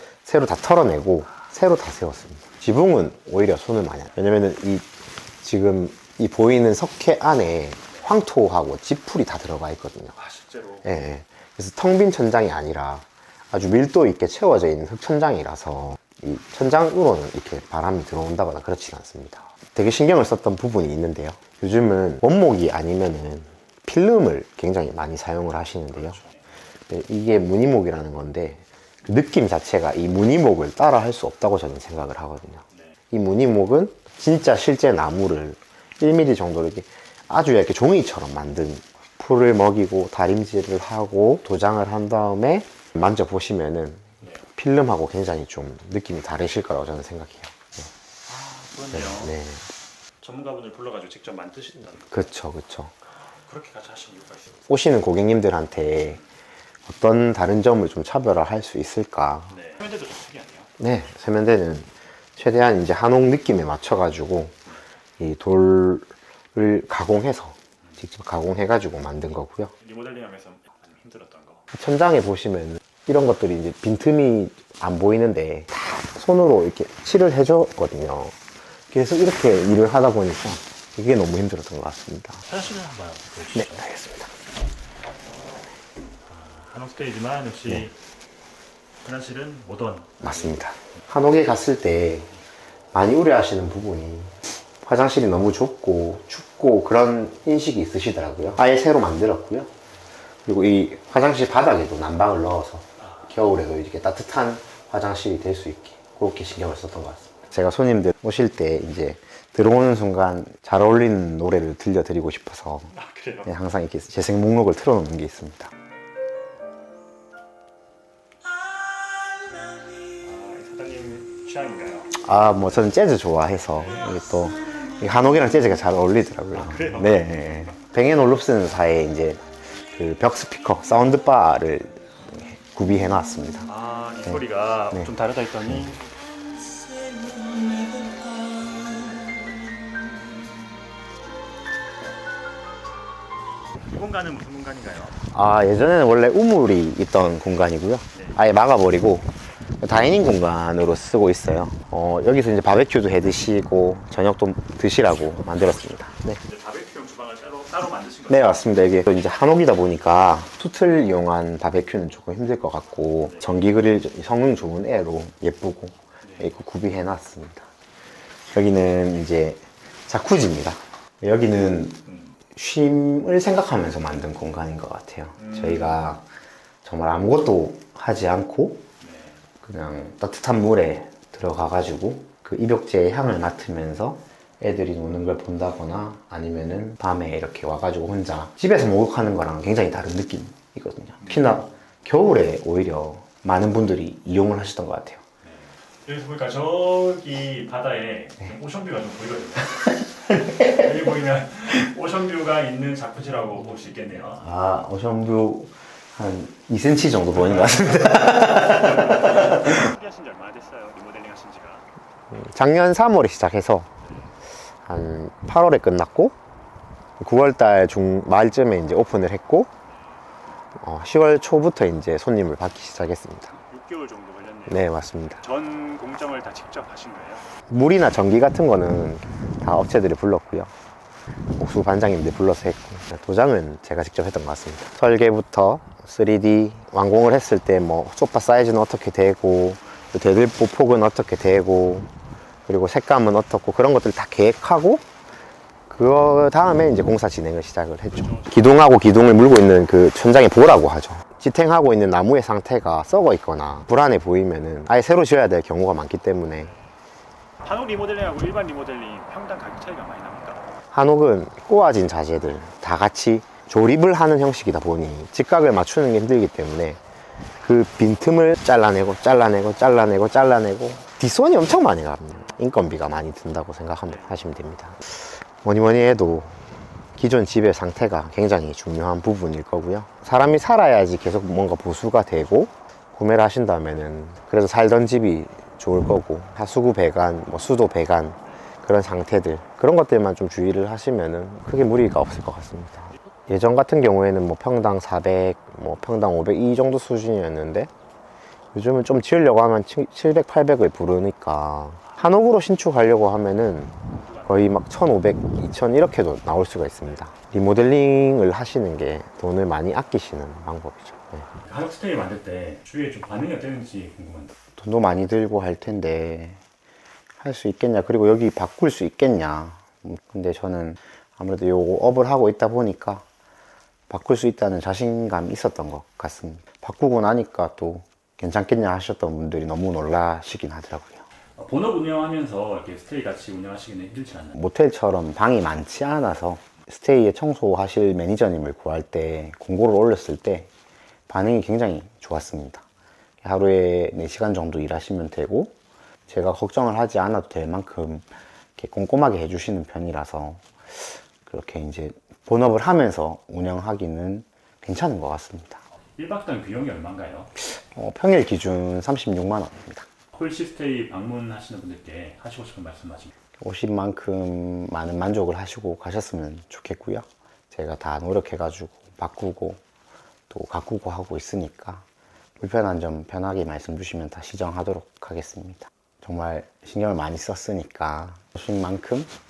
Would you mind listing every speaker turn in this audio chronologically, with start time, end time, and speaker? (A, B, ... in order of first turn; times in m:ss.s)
0:00.2-0:04.9 A
0:05.4-0:10.2 A
0:10.2-0:10.9 B
0:10.8-0:26.2 A
0:25.9-0:26.4 B
0:26.9-0:47.9 A
0:48.3-0:49.4 B
0:48.9-0:49.7 A
0:50.2-0:52.2 B
0:52.1-0:52.9 A
0:53.2-0:54.6 B
0:54.7-0:56.2 A
0:56.9-0:59.5 A
0:59.5-1:00.7 B
1:00.8-1:04.6 A
1:05.2-1:09.7 A
1:09.8-1:11.6 B
1:11.7-1:18.4 A
1:18.9-1:22.4 A
1:22.5-1:23.9 B
1:23.5-1:24.3 A
1:26.3-1:28.0 B
1:29.0-1:30.6 B
1:30.2-1:32.3 A
1:32.9-1:39.7 A
1:40.4-1:52.9 A
1:43.0-1:43.3 B
1:52.9-1:53.5 B
1:53.4-1:55.7 A
2:00.1-2:02.1 B
2:02.1-2:13.7 A
2:06.5-2:07.7 B
2:13.6-2:16.1 B
2:14.2-2:15.1 A
2:15.7-2:15.9 A
2:16.9-2:20.3 B
2:23.9-2:25.2 B
2:25.3-2:36.4 A
2:28.1-2:28.4 B
2:35.6-2:38.7 B
2:38.3-2:47.7 A
2:46.2-2:46.5 B
2:48.5-2:56.2 A
2:52.1-2:52.3 B
2:55.4-2:56.0 B
2:56.8-2:58.8 A
2:59.0-2:59.4 B
2:59.6-3:15.2 A
3:11.2-3:11.6 B
3:15.4-3:24.5 B
3:24.4-3:29.9 A
3:27.3-3:31.9 B
3:32.3-3:33.9 A
3:34.0-3:34.3 B
3:34.8-3:36.4 A
3:37.2-3:39.7 A
3:39.9-3:40.2 B
3:40.8-3:43.6 A
3:43.6-3:47.5 B
3:44.7-3:45.4 A
3:47.7-3:50.7 A
3:51.5-4:02.1 A
4:02.7-4:05.0 A
4:05.9-4:16.7 A
4:08.2-4:08.7 B
4:16.6-4:17.0 B
4:17.6-4:20.6 B
4:20.9-4:27.0 A
4:27.6-4:57.9 A
4:34.1-4:34.4 B
4:58.7-5:11.5 A
5:04.1-5:04.6 B
5:07.0-5:07.4 B
5:11.5-5:14.5 B
5:14.8-5:16.6 A
5:17.4-5:23.2 A
5:24.1-5:31.2 A
5:31.6-5:34.6 B
5:34.5-5:40.7 A
5:41.3-5:42.8 A
5:43.4-5:45.8 A
5:46.3-5:55.8 A
5:56.2-5:57.5 B
5:57.6-6:00.1 A
6:00.3-6:03.3 B
6:03.6-6:09.8 A
6:10.5-6:12.0 A
6:12.6-6:19.3 A